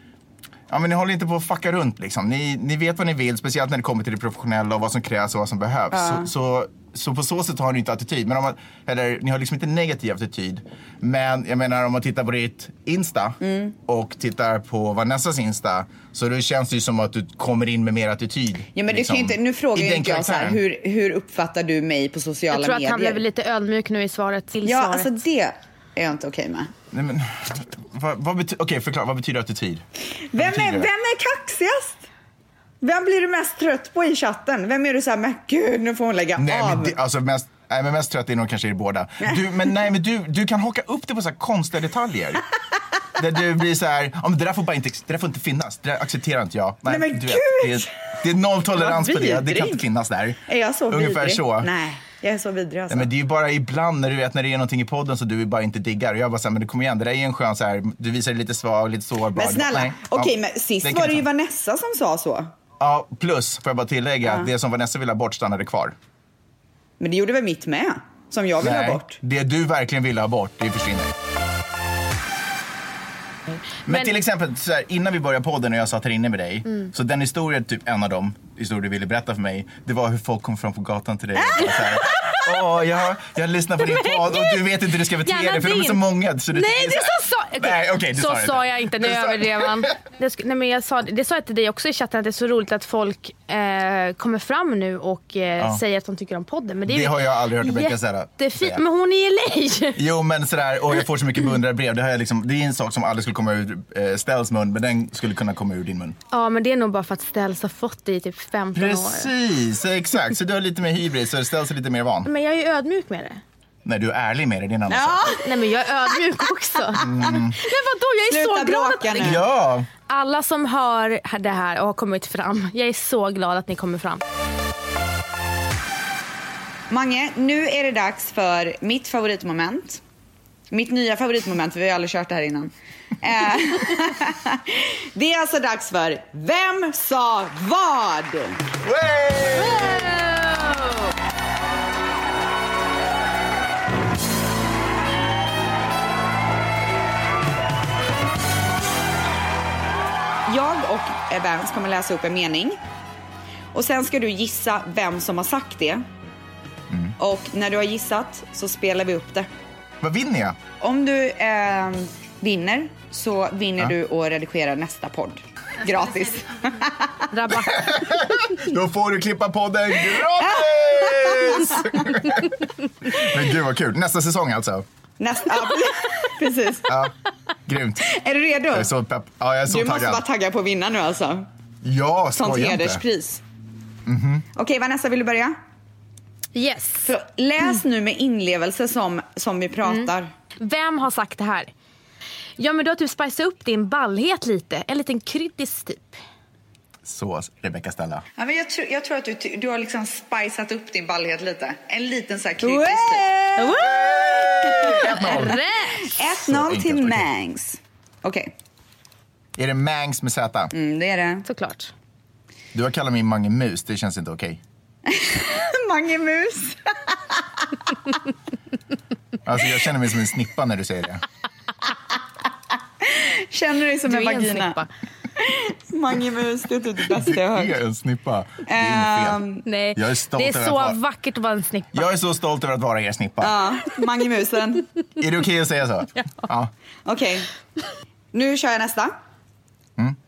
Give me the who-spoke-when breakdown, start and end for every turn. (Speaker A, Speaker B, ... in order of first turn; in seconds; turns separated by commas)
Speaker A: 0.7-20.6, Speaker B: 5.9-6.3, Speaker B: 13.4-13.7, Speaker B: 18.8-23.2, Speaker C: 22.5-25.1, Speaker B: 24.6-26.7, Speaker A: 26.9-30.9, Speaker B: 30.3-32.0, Speaker B: 32.8-37.0, Speaker A: 36.4-42.4, Speaker A: 43.2-51.7, Speaker B: 46.9-47.9, Speaker B: 48.7-49.8, Speaker B: 50.5-53.1, Speaker A: 52.9-61.2, Speaker B: 59.4-62.5, Speaker A: 62.8-66.0, Speaker B: 64.2-64.5, Speaker B: 67.0-69.2, Speaker A: 68.6-71.1, Speaker C: 73.8-74.1, Speaker A: 73.9-89.9, Speaker C: 83.9-100.0, Speaker A: 96.9-98.8, Speaker A: 100.0-106.2, Speaker C: 106.3-109.3, Speaker A: 108.8-112.3, Speaker C: 112.2-113.4, Speaker A: 113.8-115.3, Speaker B: 114.9-115.5, Speaker C: 115.4-119.4, Speaker A: 117.0-117.6, Speaker B: 118.3-119.4, Speaker A: 119.2-119.9, Speaker C: 120.1-124.2, Speaker B: 126.9-130.0, Speaker B: 130.7-138.6, Speaker A: 138.8-140.1, Speaker C: 139.5-141.1, Speaker B: 150.5-152.8, Speaker B: 153.7-156.1, Speaker A: 156.9-157.2, Speaker B: 157.2-159.5, Speaker A: 160.0-160.6, Speaker B: 160.8-167.3, Speaker C: 167.3-168.5, Speaker A: 167.5-174.8, Speaker B: 170.4-172.0, Speaker B: 175.2-177.0, Speaker A: 176.9-177.1, Speaker A: 177.7-178.1, Speaker B: 178.0-178.9, Speaker A: 178.7-180.2, Speaker B: 179.7-181.5, Speaker A: 181.8-183.0, Speaker B: 182.3-183.4, Speaker A: 184.1-184.5, Speaker B: 184.6-185.6, Speaker C: 186.6-187.1, Speaker B: 187.0-190.3, Speaker C: 189.9-191.7, Speaker C: 192.6-196.2, Speaker A: 197.0-198.2, Speaker B: 198.4-203.9, Speaker C: 203.6-206.1, Speaker A: 203.7-205.6, Speaker B: 204.7-208.5, Speaker A: 206.3-207.3, Speaker A: 209.6-210.7, Speaker B: 210.7-211.5, Speaker C: 211.5-211.9, Speaker A: 212.7-214.6, Speaker B: 215.1-217.4, Speaker A: 219.4-221.2, Speaker B: 223.0-224.8, Speaker C: 224.1-224.9, Speaker B: 225.4-227.8, Speaker A: 227.1-229.4, Speaker B: 228.7-229.7, Speaker C: 229.7-232.1, Speaker A: 229.9-231.0, Speaker A: 231.9-233.6, Speaker B: 233.4-234.9, Speaker A: 235.2-236.7, Speaker B: 237.1-237.5, Speaker B: 238.3-239.2